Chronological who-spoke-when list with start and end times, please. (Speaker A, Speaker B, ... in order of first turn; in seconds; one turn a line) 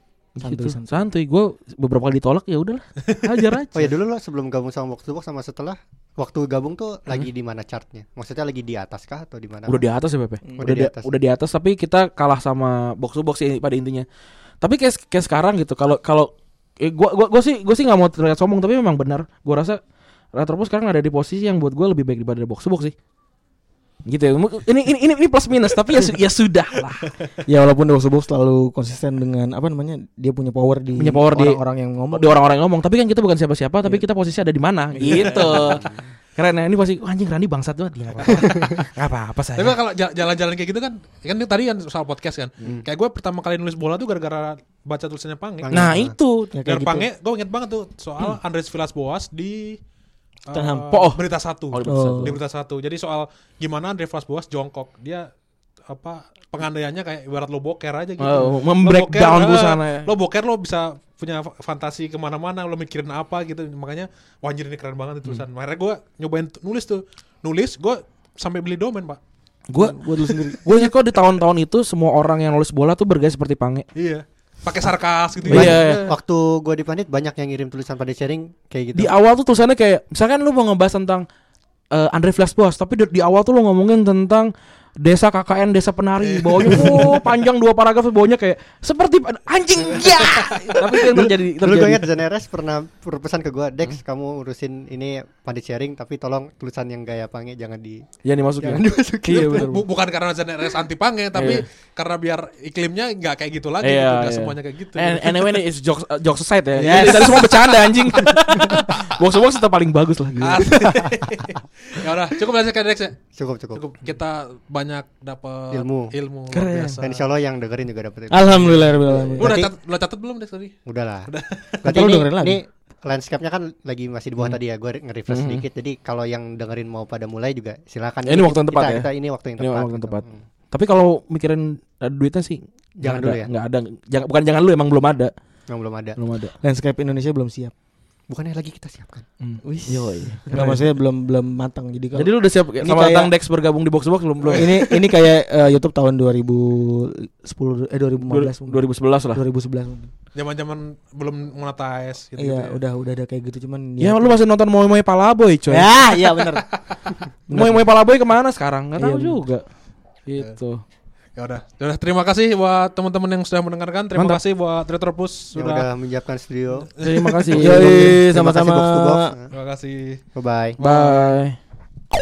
Speaker A: 0.4-0.9
Speaker B: 0.4-3.9
Speaker C: 3.8-9.8
Speaker B: 9.7-14.1
Speaker C: 10.6-11.1
Speaker B: 14.6-19.8
Speaker B: 20.3-22.9
Speaker B: 24.1-27.1
Speaker A: 27.5-32.4
Speaker B: 31.0-31.6
Speaker B: 32.1-39.8
Speaker A: 35.0-35.8
Speaker C: 35.5-36.0
Speaker D: 38.2-38.9
Speaker D: 39.6-45.8
Speaker C: 45.6-46.1
Speaker B: 45.7-46.5
Speaker A: 46.5-47.1
Speaker D: 46.7-49.8
Speaker D: 50.5-55.3
Speaker A: 50.5-50.9
Speaker B: 50.9-52.4
Speaker A: 51.9-52.3
Speaker D: 55.9-69.2
Speaker B: 58.2-60.1
Speaker B: 69.7-73.8
Speaker A: 69.8-70.6
Speaker D: 74.0-76.2
Speaker A: 75.5-76.0
Speaker B: 75.5-76.0
Speaker C: 75.6-79.1
Speaker B: 79.0-81.2
Speaker B: 81.9-92.0
Speaker D: 86.2-87.2
Speaker D: 90.1-90.9
Speaker C: 91.1-98.0
Speaker B: 98.2-99.8
Speaker C: 98.6-99.7
Speaker D: 99.3-105.4
Speaker B: 101.3-101.7
Speaker B: 103.8-110.8
Speaker D: 106.8-108.8
Speaker A: 106.8-107.5
Speaker D: 110.4-113.2
Speaker C: 113.3-113.8
Speaker D: 113.7-117.3
Speaker C: 115.7-116.1
Speaker B: 116.5-117.0
Speaker C: 117.0-119.7
Speaker A: 118.3-119.6
Speaker D: 118.5-118.8
Speaker D: 119.4-121.8
Speaker C: 120.9-121.3
Speaker C: 121.8-130.4
Speaker A: 121.9-122.6
Speaker B: 125.3-125.6
Speaker B: 128.3-129.1
Speaker B: 129.6-135.3
Speaker C: 133.0-133.5
Speaker C: 135.7-136.2
Speaker B: 136.2-136.5
Speaker A: 136.6-137.7
Speaker C: 138.3-139.2
Speaker B: 139.4-140.9
Speaker A: 139.6-143.3
Speaker B: 142.2-145.0
Speaker A: 144.6-150.1
Speaker B: 148.3-149.4
Speaker D: 150.3-152.8
Speaker A: 152.4-154.4
Speaker B: 154.0-155.9
Speaker A: 155.7-156.7
Speaker D: 156.7-157.2
Speaker A: 157.5-157.8
Speaker B: 157.5-159.6
Speaker A: 159.0-159.4
Speaker B: 160.3-160.8
Speaker D: 161.4-165.9
Speaker B: 164.2-164.4
Speaker C: 165.6-166.9
Speaker D: 166.7-167.6
Speaker B: 167.0-168.2
Speaker A: 167.6-169.3
Speaker C: 167.8-169.5
Speaker D: 169.5-170.2
Speaker C: 170.4-170.8
Speaker D: 170.8-171.4
Speaker B: 170.8-171.6